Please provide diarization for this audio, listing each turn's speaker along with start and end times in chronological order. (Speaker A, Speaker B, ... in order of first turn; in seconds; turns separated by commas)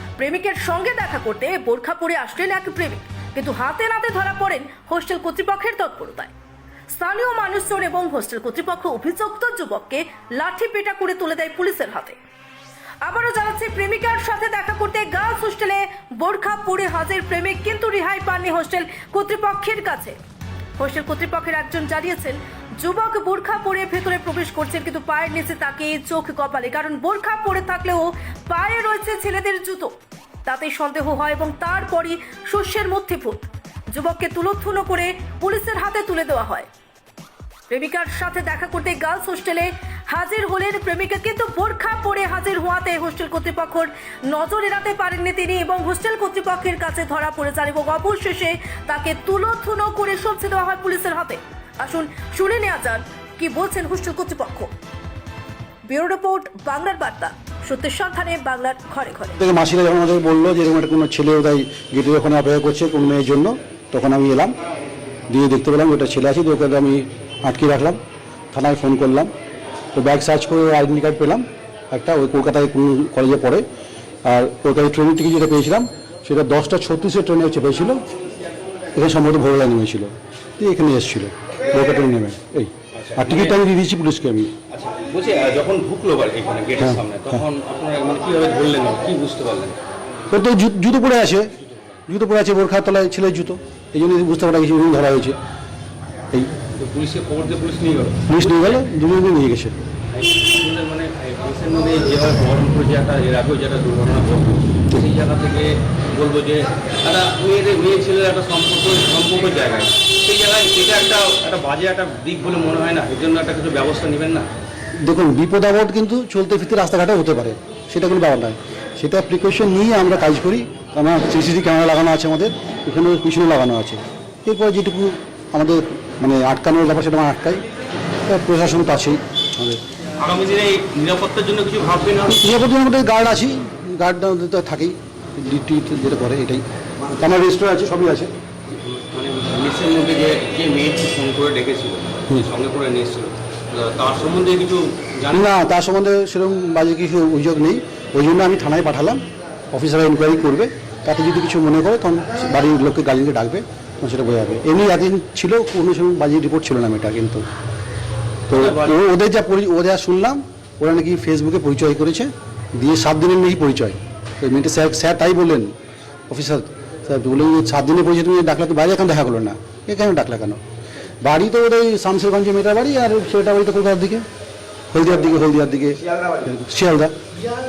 Speaker A: 0.2-6.3, Speaker A: 6.9-12.2, Speaker A: 13.0-20.2, Speaker A: 20.8-36.7, Speaker A: 37.7-54.7, Speaker A: 55.9-59.4, Speaker B: 59.4-64.5, Speaker B: 65.3-68.0, Speaker B: 68.5-69.3, Speaker B: 70.0-73.7, Speaker B: 74.2-78.0, Speaker B: 78.9-84.5, Speaker C: 82.9-83.6, Speaker C: 84.7-89.8, Speaker B: 86.8-87.4, Speaker B: 90.3-91.5, Speaker B: 92.1-95.4, Speaker C: 96.8-98.8, Speaker B: 98.3-99.8, Speaker C: 100.1-114.5, Speaker B: 115.0-127.6, Speaker B: 128.3-129.8, Speaker C: 130.2-132.4, Speaker B: 132.3-138.3, Speaker C: 138.7-145.5, Speaker B: 145.3-157.4, Speaker C: 158.5-159.0, Speaker B: 158.5-165.7, Speaker B: 166.3-170.6, Speaker B: 171.2-174.2, Speaker B: 174.9-177.1